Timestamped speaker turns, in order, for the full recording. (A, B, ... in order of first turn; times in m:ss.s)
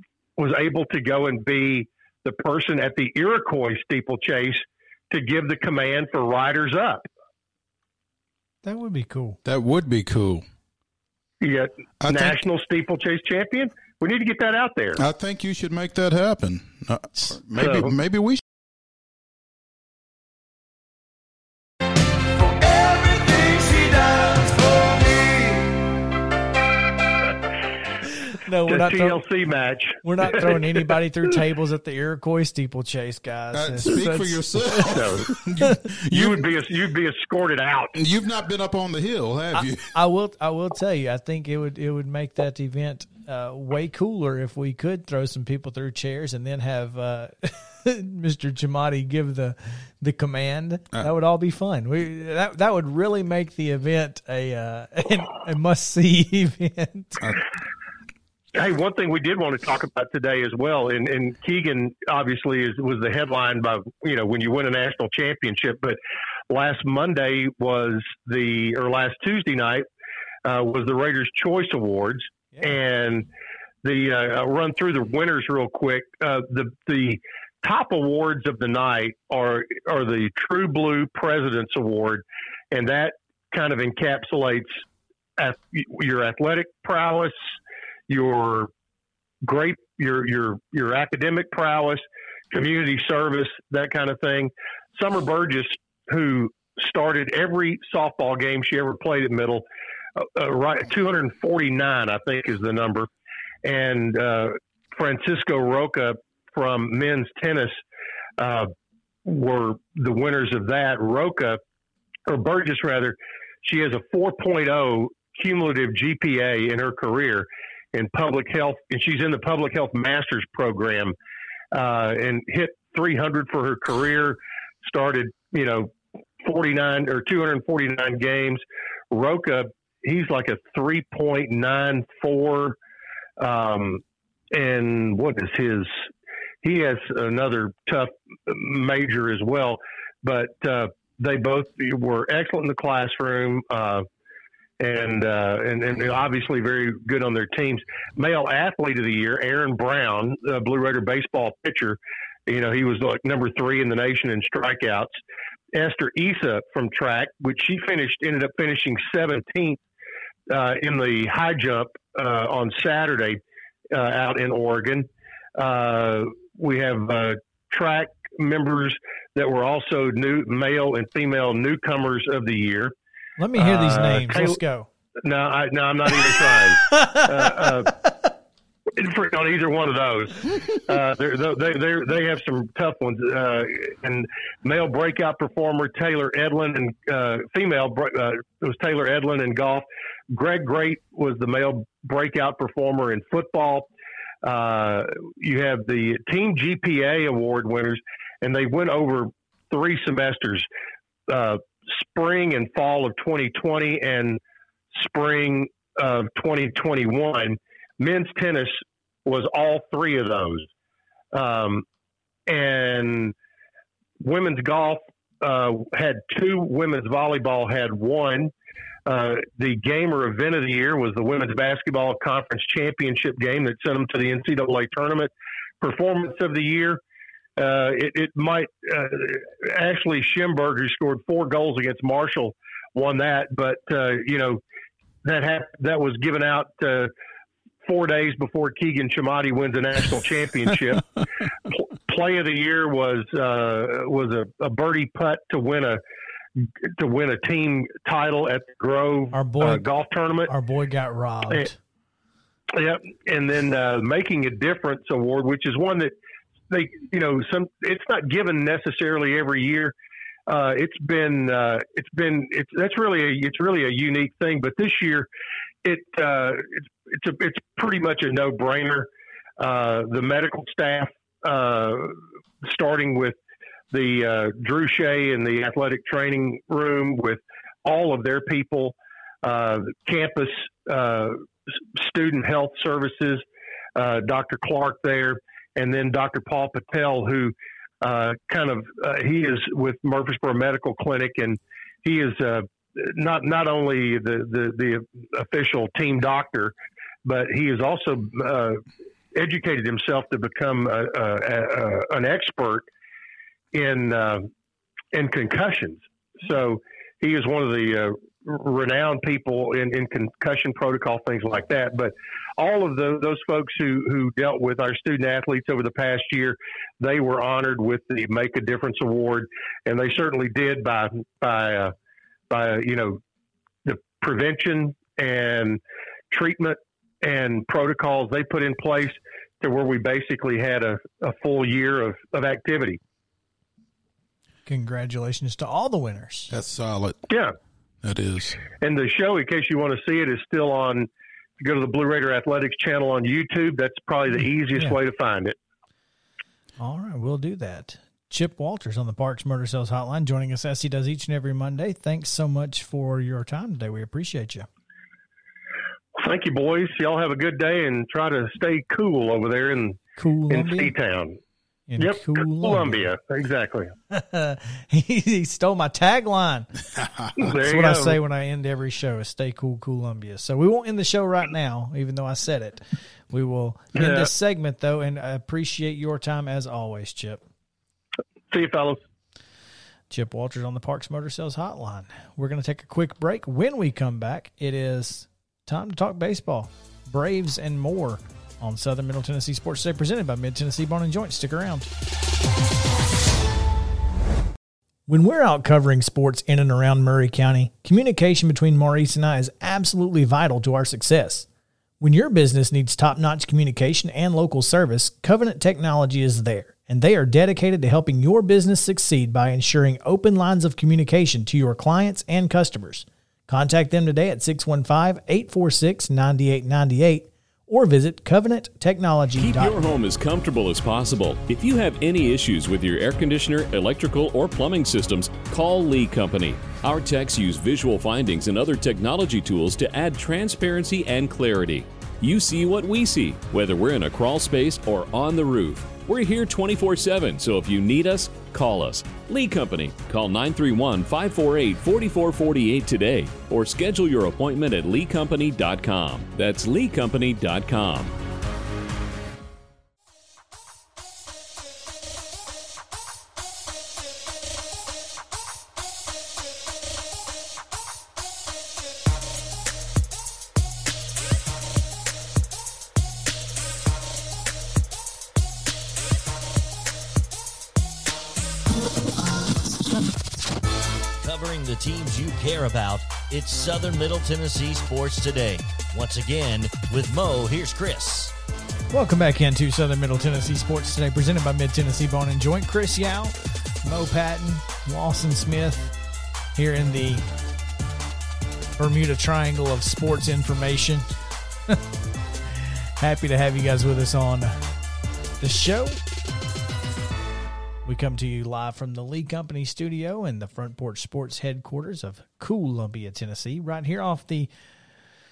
0:00.4-0:07.1 A
0:08.6-0:09.4 B
0:09.4-0:10.4 C
0:11.4-0:15.0 A
0:12.0-0:12.4 C
0:15.0-0:18.4 C
0:17.6-0:17.9 A
0:28.3-0:29.2 B
0:28.6-0:30.9 A
0:30.0-0:35.0 B
0:33.5-0:36.5 C
0:34.8-0:35.3 A
0:36.1-0:38.0 A
0:37.9-0:39.9 C
0:39.5-0:57.2 B
0:58.5-1:06.0 A
1:06.5-1:09.8 A
1:10.4-1:13.3 A
1:13.8-1:24.8 A
1:25.4-1:27.4 A
1:28.1-1:28.7 A
1:29.4-1:39.6 A
1:40.2-1:43.1 A
1:43.6-1:47.8 A
1:48.4-1:48.7 A
1:49.2-1:51.6 A
1:52.3-2:01.1 A
2:01.7-2:12.8 A
2:13.4-2:16.0 A
2:16.6-2:24.0 A
2:24.8-2:35.1 A
2:35.7-2:39.8 A
2:40.5-2:43.4 A
2:43.9-2:52.9 A
2:53.4-2:54.9 B
2:53.6-2:54.6 A
2:55.2-2:57.9 A
2:56.8-2:57.3 B
2:58.9-3:13.9 A
3:14.4-3:20.7 A
3:21.3-3:24.4 A
3:24.9-3:30.7 A
3:31.3-3:31.8 A
3:32.5-3:33.3 A
3:34.2-3:38.5 A
3:39.0-3:47.0 A
3:47.6-3:54.6 A
3:55.2-3:57.1 A
3:57.8-4:01.1 A
4:01.6-4:06.0 A
4:06.6-4:10.5 A
4:09.3-4:09.8 B
4:10.5-4:11.7 B
4:12.7-4:16.1 A
4:16.7-4:19.9 A
4:20.5-4:25.3 A
4:25.8-4:33.4 A
4:33.9-4:43.4 A
4:44.0-4:56.7 A
4:57.2-4:58.8 A
4:59.3-5:02.9 A
5:03.7-5:04.5 A
5:05.1-5:21.9 A
5:22.5-5:23.2 A
5:23.8-5:33.0 A
5:34.6-5:36.5 B
5:36.5-5:37.2 C
5:37.3-5:37.5 A
5:38.0-5:38.6 C
5:38.8-5:41.1 A
5:41.6-5:45.6 A
5:46.8-5:54.7 B
5:56.2-6:01.4 A
6:00.2-6:00.9 B
6:01.9-6:03.1 B
6:02.0-6:03.9 A
6:04.1-6:06.7 B
6:07.0-6:07.4 C
6:07.4-6:08.2 A
6:07.5-6:17.4 B
6:13.9-6:14.3 A
6:18.5-6:19.0 A
6:20.1-6:31.9 B
6:35.1-6:41.4 B
6:42.0-6:59.9 B
6:59.4-7:28.2 D
7:51.2-7:58.3 E
7:58.9-8:05.9 B
8:06.5-8:07.2 B
8:08.8-8:11.1 B
8:12.5-8:14.6 B
8:15.4-8:16.0 B
8:17.8-8:24.5 B